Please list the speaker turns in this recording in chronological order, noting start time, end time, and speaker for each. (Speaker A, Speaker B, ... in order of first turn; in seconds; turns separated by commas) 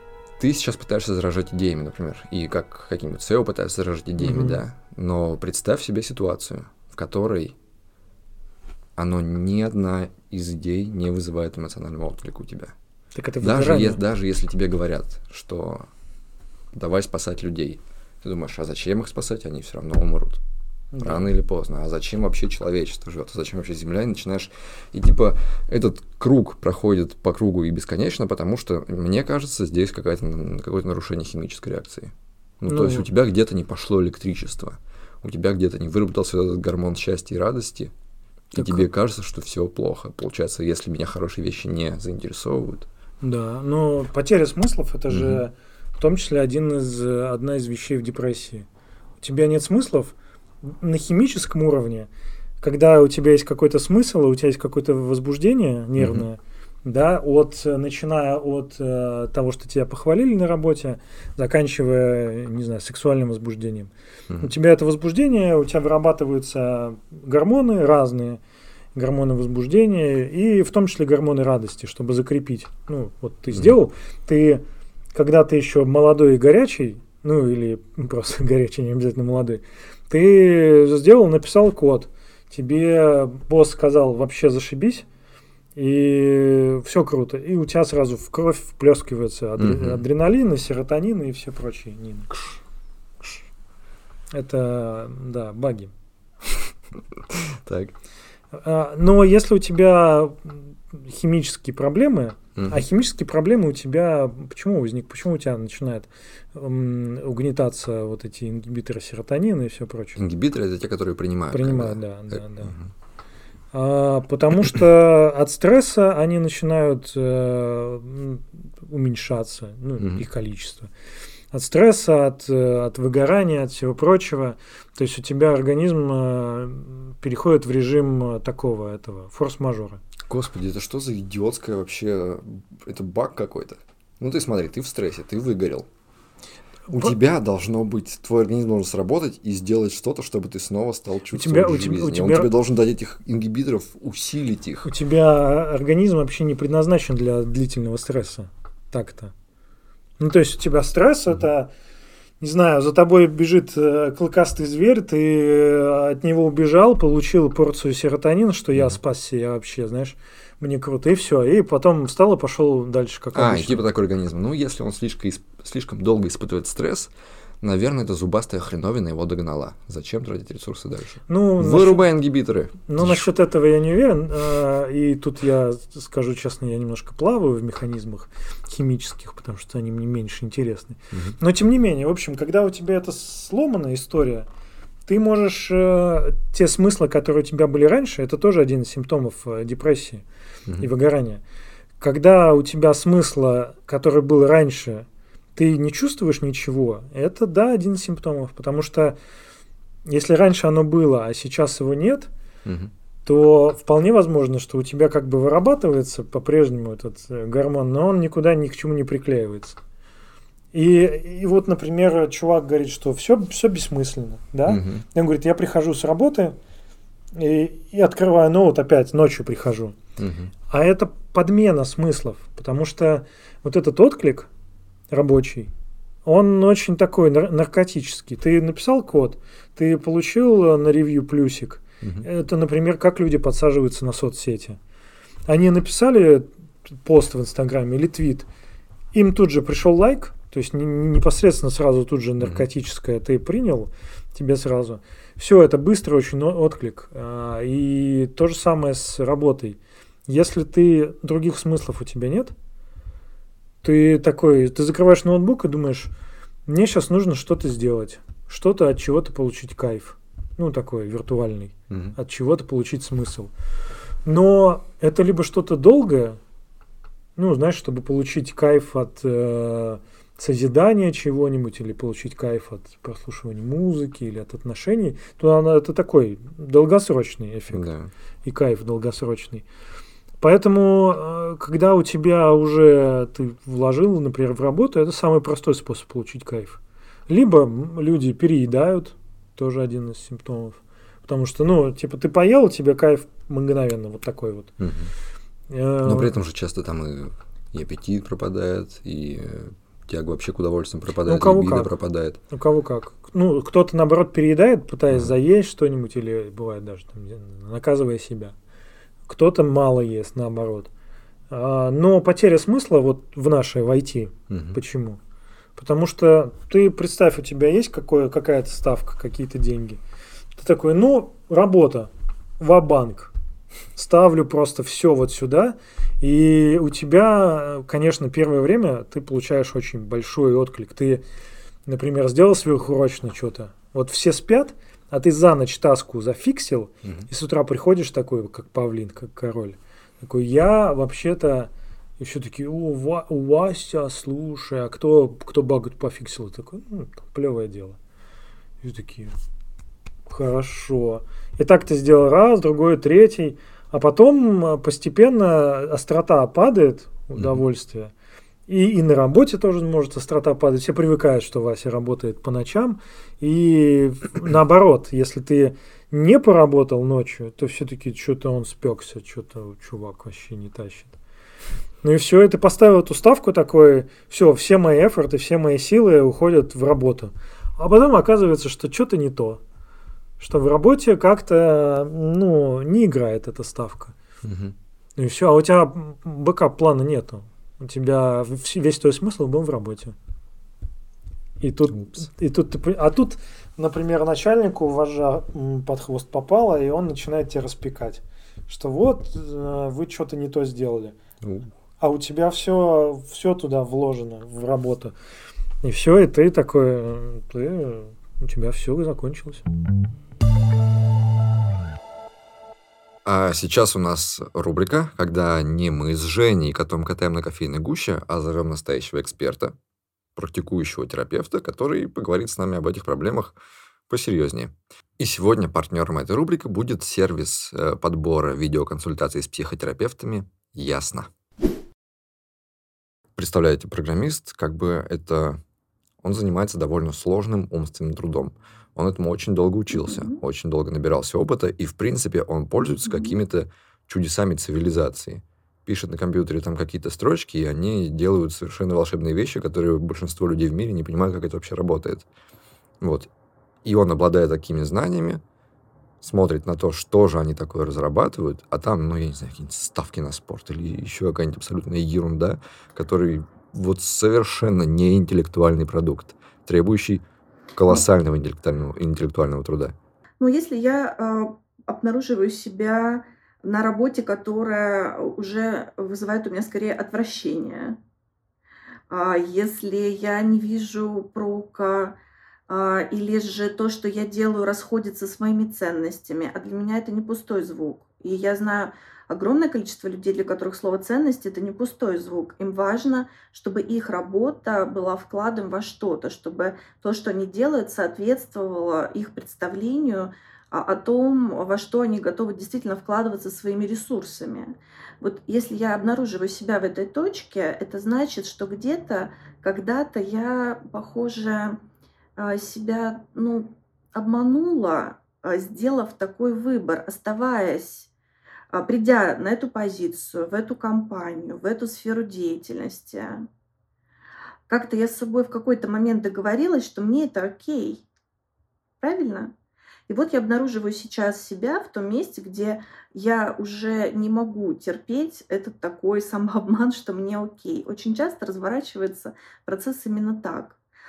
Speaker A: 0.4-7.5, Speaker B: 4.2-4.6, Speaker A: 9.0-12.7, Speaker B: 13.1-14.0, Speaker A: 13.4-15.9, Speaker A: 16.7-20.4, Speaker B: 20.9-21.3, Speaker A: 21.0-37.9, Speaker B: 32.7-33.0, Speaker A: 38.5-42.9, Speaker B: 38.5-38.9, Speaker B: 43.2-48.7, Speaker A: 45.1-45.4, Speaker B: 49.2-52.1, Speaker B: 52.6-68.4, Speaker A: 56.0-56.2, Speaker B: 68.9-85.0, Speaker B: 85.8-92.3, Speaker A: 89.6-90.0, Speaker B: 94.3-95.9, Speaker A: 97.3-97.9, Speaker B: 98.5-110.2, Speaker A: 102.5-102.8, Speaker A: 110.2-112.9, Speaker B: 111.5-112.7, Speaker B: 113.7-120.9, Speaker A: 120.0-120.2, Speaker B: 121.5-130.0, Speaker A: 130.3-135.9, Speaker A: 136.9-144.9, Speaker B: 141.3-142.5, Speaker B: 144.8-149.3, Speaker B: 150.2-151.7, Speaker B: 152.4-163.9, Speaker A: 163.3-173.3, Speaker B: 171.3-172.1, Speaker B: 172.9-184.5, Speaker B: 185.1-190.2, Speaker B: 190.8-191.4, Speaker B: 192.0-199.2, Speaker B: 200.0-202.3, Speaker A: 202.6-202.9, Speaker B: 203.2-209.8, Speaker B: 210.7-216.6, Speaker A: 214.7-215.0, Speaker B: 217.3-219.9, Speaker A: 220.2-220.5, Speaker B: 220.7-224.5, Speaker B: 225.1-225.7, Speaker B: 226.2-234.8, Speaker A: 232.0-232.3, Speaker B: 235.5-238.5, Speaker B: 239.1-252.5, Speaker B: 253.8-256.1, Speaker B: 256.7-263.5, Speaker A: 261.9-262.1, Speaker B: 264.2-266.4, Speaker B: 267.4-277.9, Speaker A: 277.7-278.1, Speaker B: 278.4-279.6, Speaker B: 280.4-294.8, Speaker A: 294.8-295.1, Speaker B: 295.7-296.3, Speaker A: 296.0-302.4, Speaker B: 301.2-301.9, Speaker B: 302.5-308.5, Speaker B: 309.3-310.9, Speaker B: 311.5-315.2, Speaker A: 314.5-314.8, Speaker B: 315.8-320.0, Speaker B: 320.6-323.3, Speaker B: 324.0-331.2, Speaker B: 331.9-348.0, Speaker B: 348.8-349.3, Speaker B: 350.2-358.1, Speaker A: 357.4-357.6, Speaker B: 358.7-371.1, Speaker B: 372.0-379.6, Speaker B: 380.4-384.1, Speaker A: 384.4-384.7, Speaker B: 385.1-390.1, Speaker B: 391.6-401.1, Speaker A: 401.4-401.7, Speaker B: 402.0-405.1, Speaker B: 405.8-409.6, Speaker A: 413.2-419.8, Speaker A: 420.4-423.6, Speaker A: 424.1-431.3, Speaker A: 433.4-435.6, Speaker A: 436.2-452.3, Speaker C: 440.0-440.4, Speaker A: 453.0-453.3, Speaker A: 453.9-455.4, Speaker A: 456.2-467.2, Speaker A: 467.8-469.9, Speaker C: 470.4-478.0, Speaker C: 479.1-482.2, Speaker C: 482.7-511.8, Speaker C: 512.4-518.1, Speaker C: 518.7-523.5, Speaker C: 524.7-528.0, Speaker C: 529.0-529.5, Speaker C: 530.1-540.8